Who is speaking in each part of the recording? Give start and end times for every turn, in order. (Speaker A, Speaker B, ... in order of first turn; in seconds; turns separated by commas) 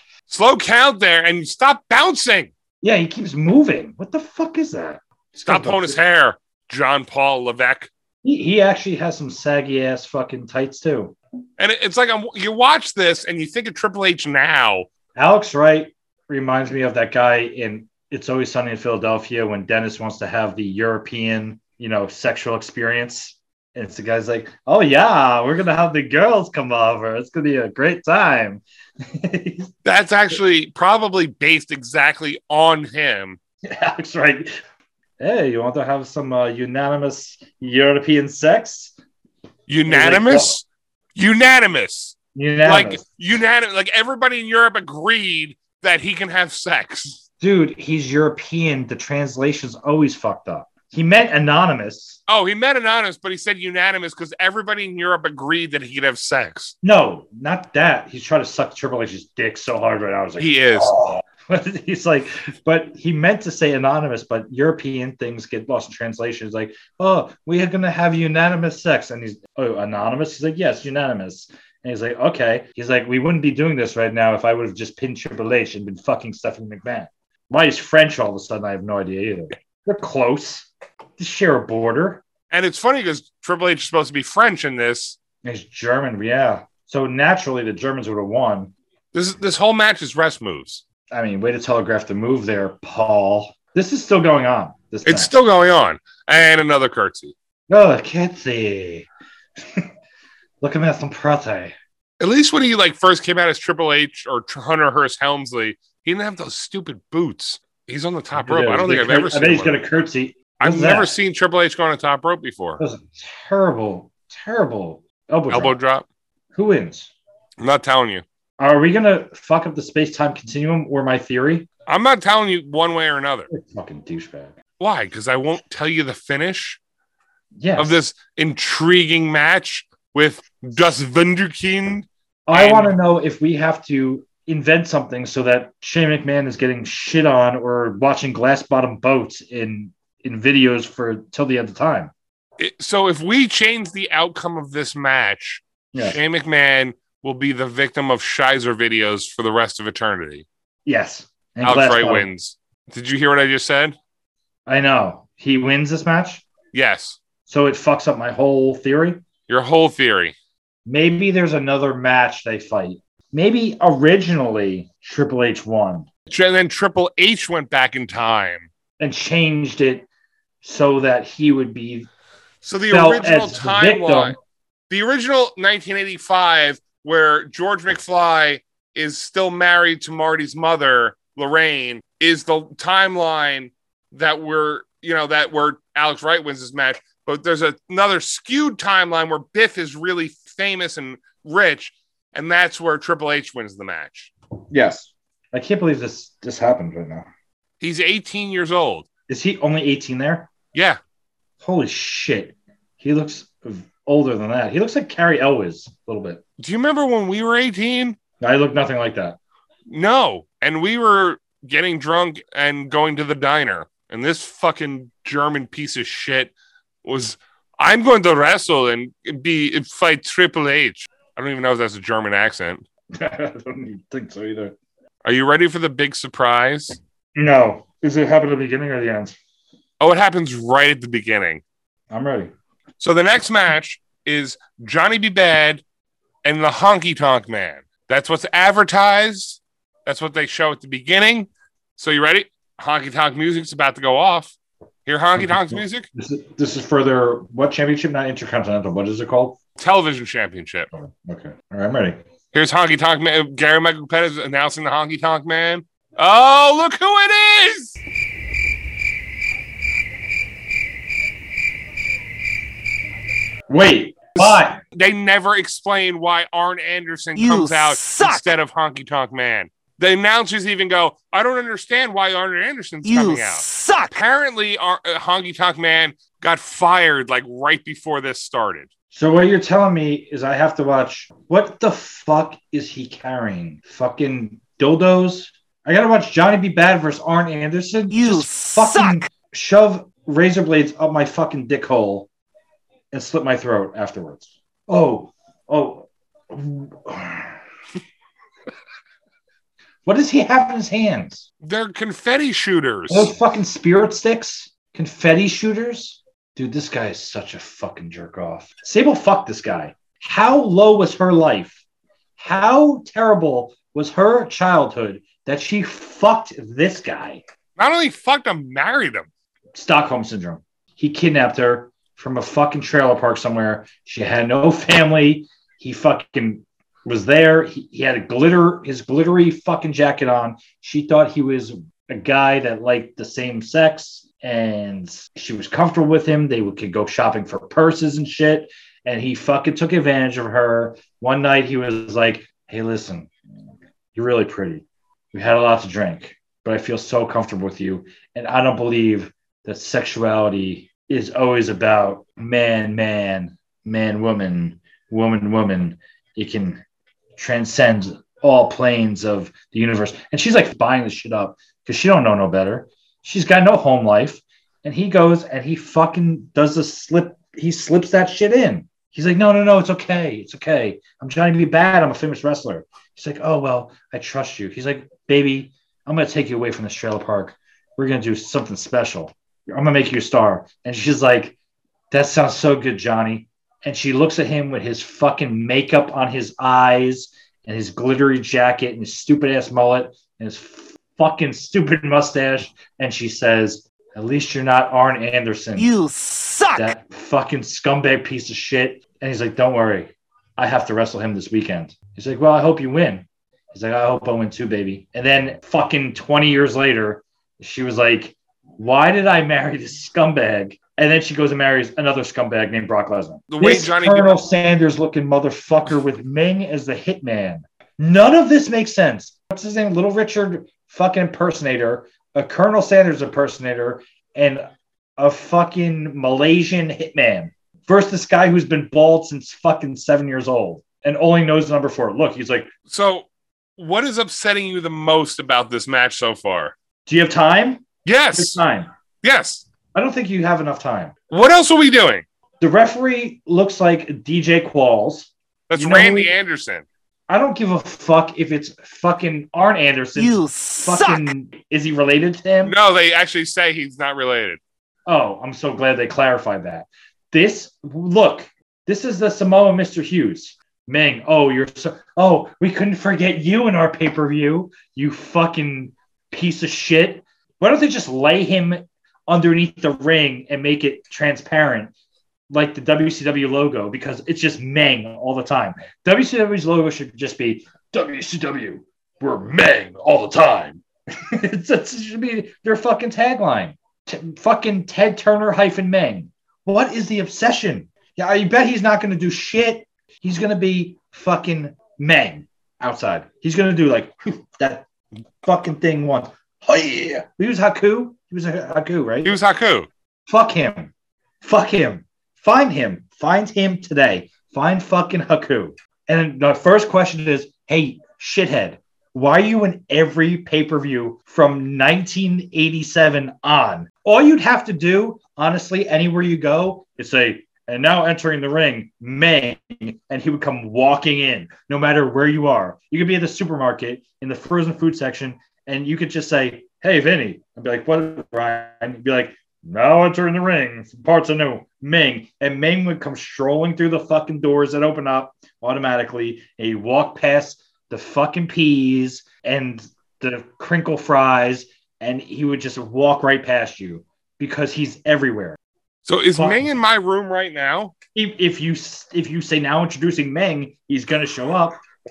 Speaker A: 0.3-2.5, Speaker B: 2.8-6.0, Speaker A: 5.5-7.9, Speaker B: 8.2-11.2, Speaker A: 11.6-14.9, Speaker B: 15.2-29.7, Speaker A: 29.8-33.4, Speaker B: 33.6-34.5, Speaker B: 35.2-39.0, Speaker A: 39.7-47.2, Speaker B: 39.9-40.6, Speaker B: 42.4-43.0, Speaker B: 47.4-52.2, Speaker A: 52.3-56.8, Speaker B: 56.8-82.2, Speaker A: 60.4-61.0, Speaker A: 82.5-85.2, Speaker B: 85.4-88.7, Speaker A: 89.1-90.8, Speaker B: 91.1-95.3, Speaker A: 95.1-97.3, Speaker B: 97.7-99.1, Speaker B: 99.6-99.9, Speaker B: 100.6-101.8, Speaker A: 102.2-109.8, Speaker B: 108.3-111.1, Speaker A: 110.6-112.8, Speaker B: 112.8-115.8, Speaker A: 115.5-116.1, Speaker B: 116.5-117.1, Speaker A: 117.6-118.2, Speaker B: 118.6-121.7, Speaker A: 121.9-123.5, Speaker B: 123.5-124.5, Speaker A: 124.8-126.8, Speaker B: 127.6-128.0, Speaker A: 127.8-133.0, Speaker B: 132.5-142.1, Speaker A: 142.6-150.5, Speaker B: 145.9-146.2, Speaker B: 150.9-152.3, Speaker A: 151.6-154.0, Speaker B: 154.7-156.4, Speaker A: 156.7-157.2, Speaker B: 157.5-159.2, Speaker A: 159.5-160.4, Speaker B: 160.9-166.1, Speaker A: 166.3-168.7, Speaker B: 169.0-170.1, Speaker B: 170.6-172.1, Speaker A: 172.6-174.4, Speaker B: 172.9-174.4, Speaker A: 174.9-194.3, Speaker B: 194.7-197.3, Speaker A: 197.8-199.1, Speaker B: 199.3-200.5, Speaker A: 200.7-201.0, Speaker B: 201.6-206.4, Speaker A: 206.6-208.2, Speaker B: 208.4-209.4, Speaker A: 209.9-216.5, Speaker A: 217.0-222.8, Speaker B: 223.1-224.8, Speaker A: 225.2-227.0, Speaker B: 227.3-229.4, Speaker A: 230.0-231.6, Speaker B: 232.1-232.5, Speaker A: 233.0-235.8, Speaker A: 236.4-244.6, Speaker A: 245.1-246.1, Speaker B: 245.4-249.6, Speaker A: 249.8-250.9, Speaker B: 250.9-252.2, Speaker A: 252.5-258.0, Speaker B: 263.7-264.8, Speaker A: 264.4-278.9, Speaker C: 267.4-268.4, Speaker C: 273.1-274.2, Speaker B: 279.1-292.3, Speaker C: 288.1-289.2, Speaker B: 293.1-297.5, Speaker B: 300.1-301.5, Speaker A: 301.6-303.3, Speaker B: 303.1-311.8, Speaker B: 312.4-317.4, Speaker A: 317.8-319.3, Speaker B: 319.7-343.3, Speaker B: 344.1-356.8, Speaker B: 357.4-381.6, Speaker B: 382.1-395.9, Speaker C: 395.8-396.9, Speaker B: 396.8-424.6, Speaker A: 413.5-414.4, Speaker B: 425.2-432.7, Speaker A: 432.9-436.8, Speaker B: 437.1-438.9, Speaker A: 438.1-438.6, Speaker A: 439.2-439.6, Speaker B: 439.9-441.1, Speaker A: 441.3-442.2, Speaker B: 442.6-446.3, Speaker A: 445.7-446.9, Speaker B: 447.3-452.8, Speaker C: 450.2-451.3, Speaker A: 452.6-454.6, Speaker B: 455.1-471.9, Speaker B: 472.5-494.9, Speaker B: 495.4-499.4, Speaker A: 499.2-499.9, Speaker B: 500.3-545.6, Speaker A: 546.1-548.0, Speaker B: 546.4-546.6, Speaker B: 548.1-551.8